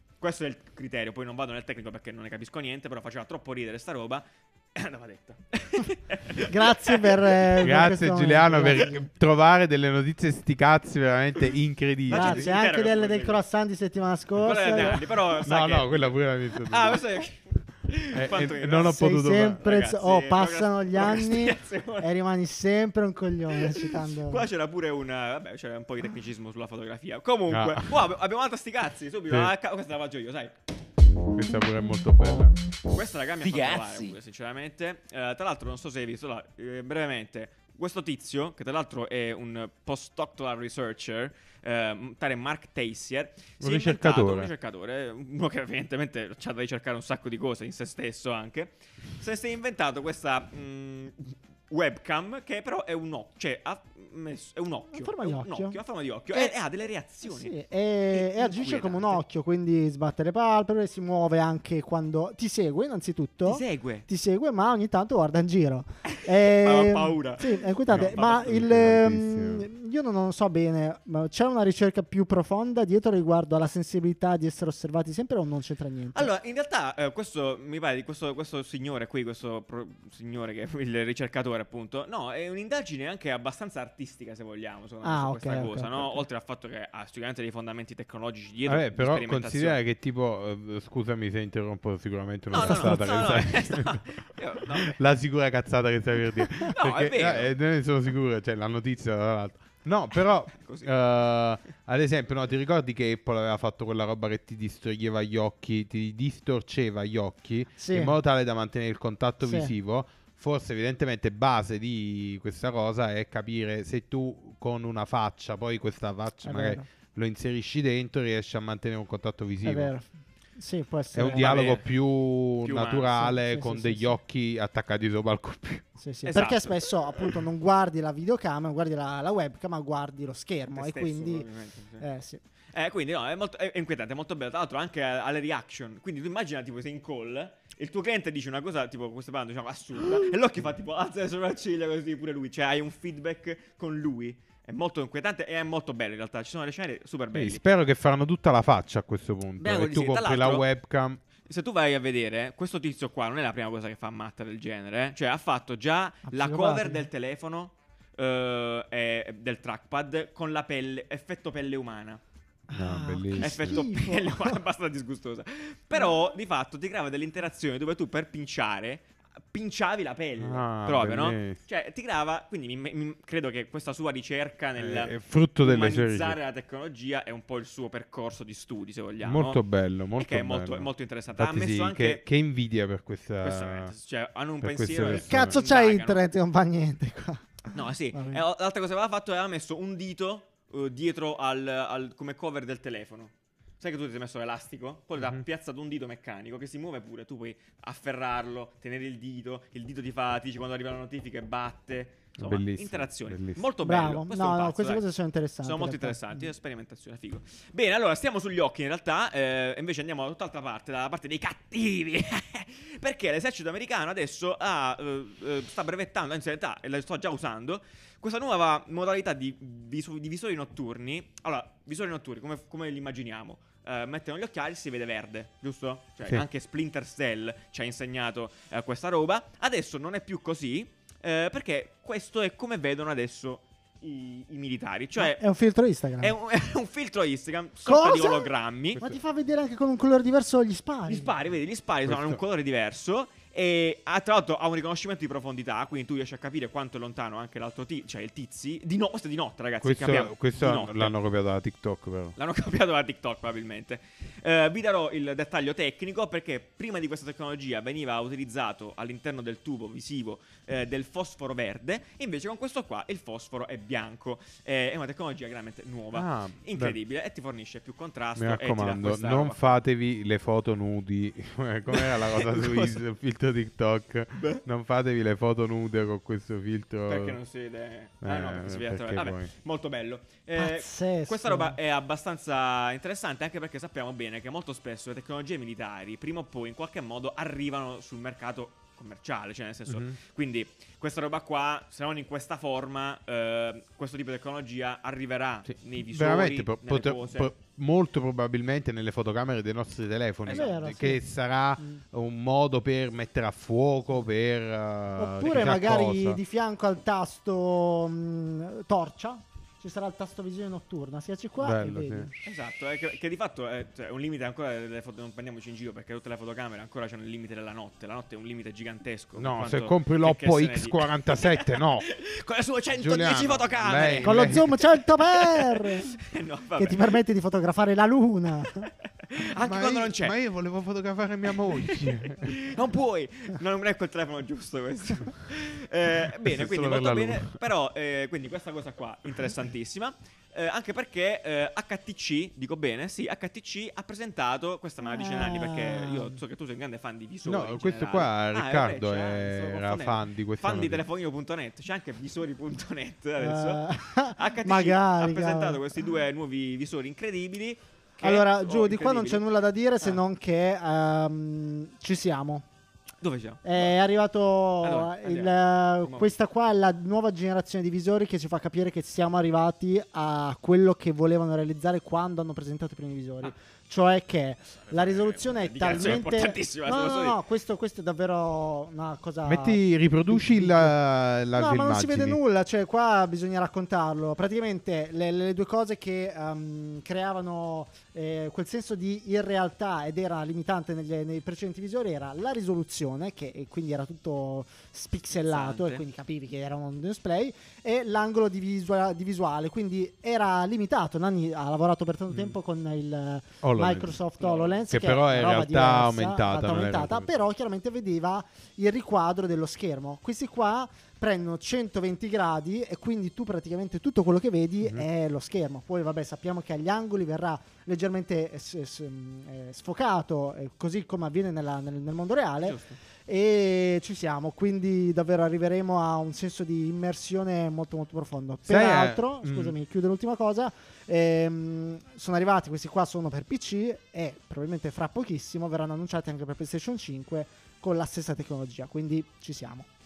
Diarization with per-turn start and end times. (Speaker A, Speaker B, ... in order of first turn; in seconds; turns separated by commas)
Speaker A: 0.2-4.2, Speaker A: 4.7-7.5, Speaker B: 6.5-9.0, Speaker C: 7.6-12.5, Speaker A: 12.1-13.4, Speaker B: 12.1-15.0, Speaker A: 14.4-16.1, Speaker C: 15.4-17.0, Speaker A: 16.6-22.1, Speaker C: 18.1-19.6, Speaker B: 18.8-24.5, Speaker A: 23.5-30.5, Speaker C: 27.5-27.9, Speaker C: 31.3-32.5, Speaker A: 32.9-57.5, Speaker C: 43.6-44.5, Speaker B: 54.9-55.8, Speaker B: 57.2-76.3, Speaker A: 58.1-59.2, Speaker A: 63.4-64.0, Speaker A: 66.0-68.5, Speaker C: 67.9-69.7, Speaker A: 76.1-89.8, Speaker B: 85.0-86.2, Speaker C: 88.7-94.0, Speaker A: 92.5-95.0, Speaker C: 94.7-119.9, Speaker A: 96.7-97.5, Speaker A: 100.5-100.9, Speaker B: 107.8-108.1, Speaker B: 109.4-109.7, Speaker B: 116.4-116.8, Speaker B: 119.6-121.7, Speaker C: 121.1-125.9, Speaker A: 121.3-121.9, Speaker A: 122.6-123.3, Speaker B: 123.2-124.2, Speaker B: 126.0-131.5, Speaker A: 126.2-127.4, Speaker A: 130.7-132.1, Speaker B: 132.0-132.4, Speaker A: 132.7-147.6, Speaker C: 147.3-151.2, Speaker A: 149.6-150.7, Speaker A: 151.4-162.2, Speaker B: 156.3-157.1, Speaker B: 162.7-164.6, Speaker C: 162.7-163.8, Speaker A: 163.4-179.6, Speaker C: 170.4-171.6, Speaker C: 174.8-176.4, Speaker C: 179.2-183.9, Speaker A: 180.2-182.2, Speaker A: 183.4-186.2, Speaker C: 184.6-185.6, Speaker B: 185.0-188.4, Speaker A: 187.7-205.0, Speaker C: 202.4-203.6, Speaker B: 203.8-206.5, Speaker A: 205.6-235.4, Speaker B: 235.2-236.3, Speaker A: 236.2-239.0, Speaker B: 237.8-241.3, Speaker A: 241.1-251.1, Speaker C: 242.1-242.4, Speaker C: 249.8-252.3, Speaker A: 252.3-269.7, Speaker C: 266.1-267.0, Speaker C: 268.4-277.4, Speaker A: 271.9-273.0, Speaker A: 274.4-274.6, Speaker A: 277.1-297.5, Speaker C: 278.2-279.5, Speaker B: 280.6-281.8, Speaker C: 289.9-290.1, Speaker C: 295.7-306.4, Speaker A: 300.5-300.8, Speaker B: 300.5-301.2, Speaker B: 305.2-312.4, Speaker C: 311.6-312.3, Speaker A: 312.4-327.2, Speaker C: 319.4-322.1, Speaker C: 322.9-324.7, Speaker B: 324.2-326.2, Speaker B: 326.8-328.9, Speaker A: 329.0-330.4, Speaker C: 329.6-332.6, Speaker A: 331.5-353.8, Speaker C: 336.4-337.5, Speaker B: 345.0-346.4, Speaker C: 347.4-351.0, Speaker B: 353.4-356.0, Speaker A: 354.3-359.4, Speaker B: 358.2-362.6, Speaker A: 363.2-363.9, Speaker B: 363.6-380.9, Speaker A: 364.8-366.3, Speaker A: 374.9-377.4, Speaker C: 376.0-376.2, Speaker C: 379.4-382.4, Speaker B: 381.5-439.9, Speaker A: 395.5-396.0, Speaker C: 403.6-404.2, Speaker A: 404.4-404.8, Speaker C: 404.9-407.3, Speaker A: 422.6-423.0, Speaker C: 428.6-429.8